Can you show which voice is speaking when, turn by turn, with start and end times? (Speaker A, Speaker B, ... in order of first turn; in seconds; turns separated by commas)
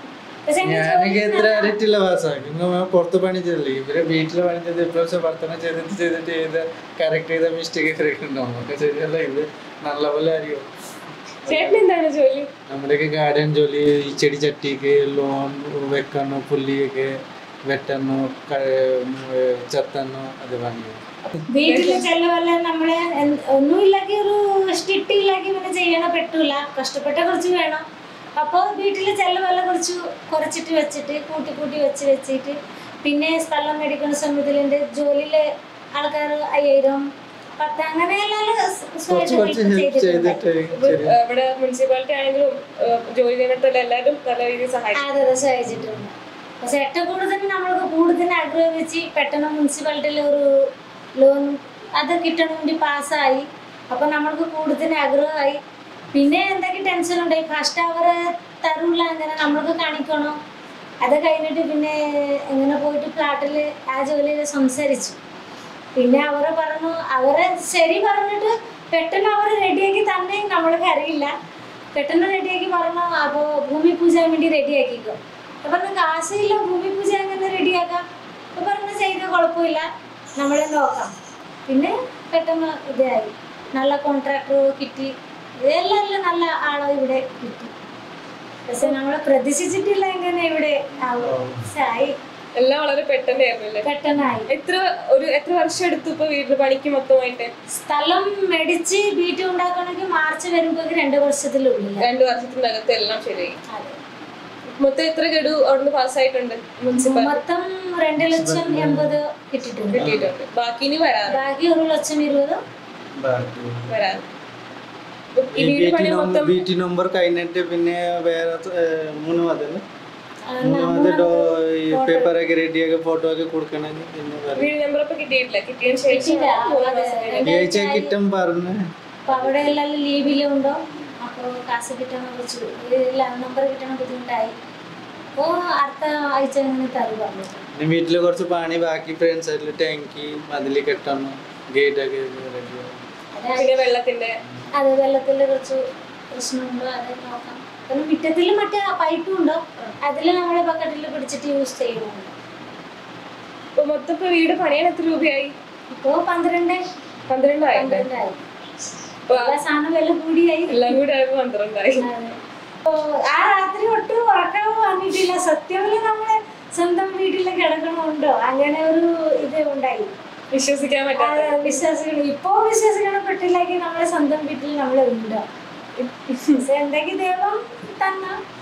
Speaker A: 0.5-1.8, Speaker B: 0.6-10.7, Speaker B: 11.4-11.8, Speaker C: 11.5-12.5, Speaker B: 12.7-21.0, Speaker C: 21.3-22.1, Speaker A: 21.5-27.8, Speaker A: 28.4-37.0, Speaker A: 37.6-40.4, Speaker B: 39.1-41.2, Speaker C: 40.7-45.1, Speaker A: 45.0-50.5, Speaker A: 51.2-55.6, Speaker A: 56.1-60.4, Speaker A: 61.0-65.2, Speaker A: 66.0-71.3, Speaker A: 71.9-78.0, Speaker A: 78.5-79.9, Speaker A: 80.4-81.1, Speaker A: 81.7-87.7, Speaker A: 88.7-92.2, Speaker B: 91.2-91.7, Speaker C: 92.5-93.9, Speaker A: 93.8-94.5, Speaker C: 94.5-97.5, Speaker A: 97.7-102.1, Speaker C: 102.0-103.6, Speaker A: 103.7-104.0, Speaker C: 104.8-107.4, Speaker A: 106.9-110.1, Speaker B: 108.2-109.2, Speaker C: 109.9-111.4, Speaker B: 110.0-110.3, Speaker A: 111.3-112.6, Speaker B: 113.2-114.0, Speaker C: 113.9-114.2, Speaker C: 115.4-116.7, Speaker B: 115.5-119.8, Speaker A: 120.5-122.3, Speaker B: 120.6-124.7, Speaker C: 124.6-127.6, Speaker A: 126.1-128.1, Speaker B: 127.5-129.8, Speaker A: 129.3-134.5, Speaker A: 135.4-137.6, Speaker B: 137.8-143.0, Speaker A: 143.3-143.8, Speaker C: 143.6-144.3, Speaker A: 144.8-145.8, Speaker A: 146.3-152.3, Speaker C: 153.8-155.5, Speaker A: 155.9-156.8, Speaker C: 157.3-158.1, Speaker A: 157.7-158.4, Speaker C: 159.3-159.6, Speaker A: 159.3-161.0, Speaker C: 160.7-162.0, Speaker A: 162.0-170.1, Speaker C: 170.5-171.6, Speaker A: 171.2-175.4, Speaker C: 176.0-176.6, Speaker A: 176.6-178.4